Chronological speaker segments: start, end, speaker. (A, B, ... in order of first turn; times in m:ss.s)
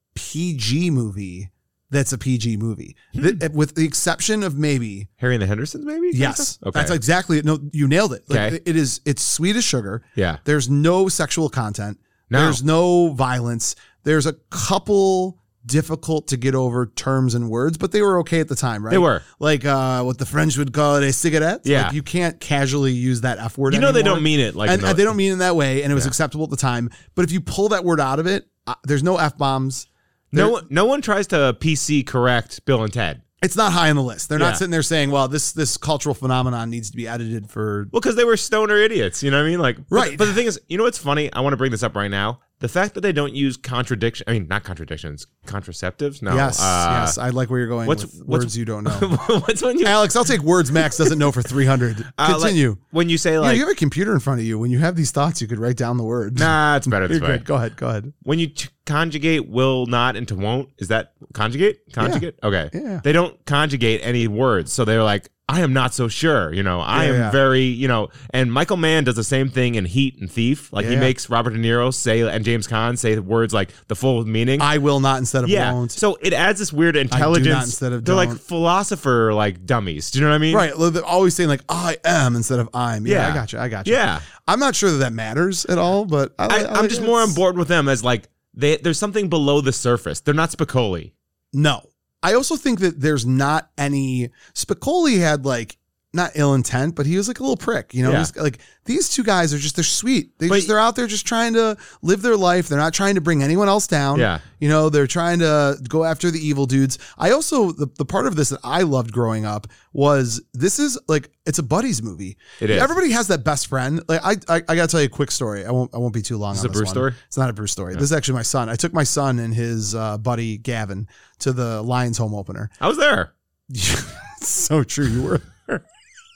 0:00.1-0:05.1 A
0:05.2-0:07.0 B
0:06.1-0:30.6 A
0:08.3-0:08.6 B
0:12.3-0:12.6 B
0:18.9-0:19.2 B
0:21.6-0:22.0 B
0:23.7-0:25.1 B
0:30.3-0:33.2 B
0:33.4-0:37.9 A
0:34.4-0:34.6 B
0:37.9-0:47.2 B
0:39.9-0:40.4 A
0:46.3-0:49.1 A
0:47.8-0:50.0 B
0:49.8-0:52.8 A
0:52.2-0:53.6 B
0:53.4-0:58.1 A
0:56.4-0:57.4 B
0:58.2-1:14.7 B
1:02.0-1:03.0 A
1:06.9-1:07.4 A
1:10.8-1:11.1 A
1:14.6-1:16.0 A
1:15.4-1:20.6 B
1:17.1-1:18.4 A
1:20.5-1:27.4 A
1:23.0-1:24.2 B
1:26.5-1:31.1 B
1:31.5-2:02.7 A
1:38.0-1:38.3 B
1:44.1-1:44.4 B
1:52.6-1:52.9 B
1:56.5-1:57.2 B
2:02.8-2:03.3 B
2:03.7-2:05.8 A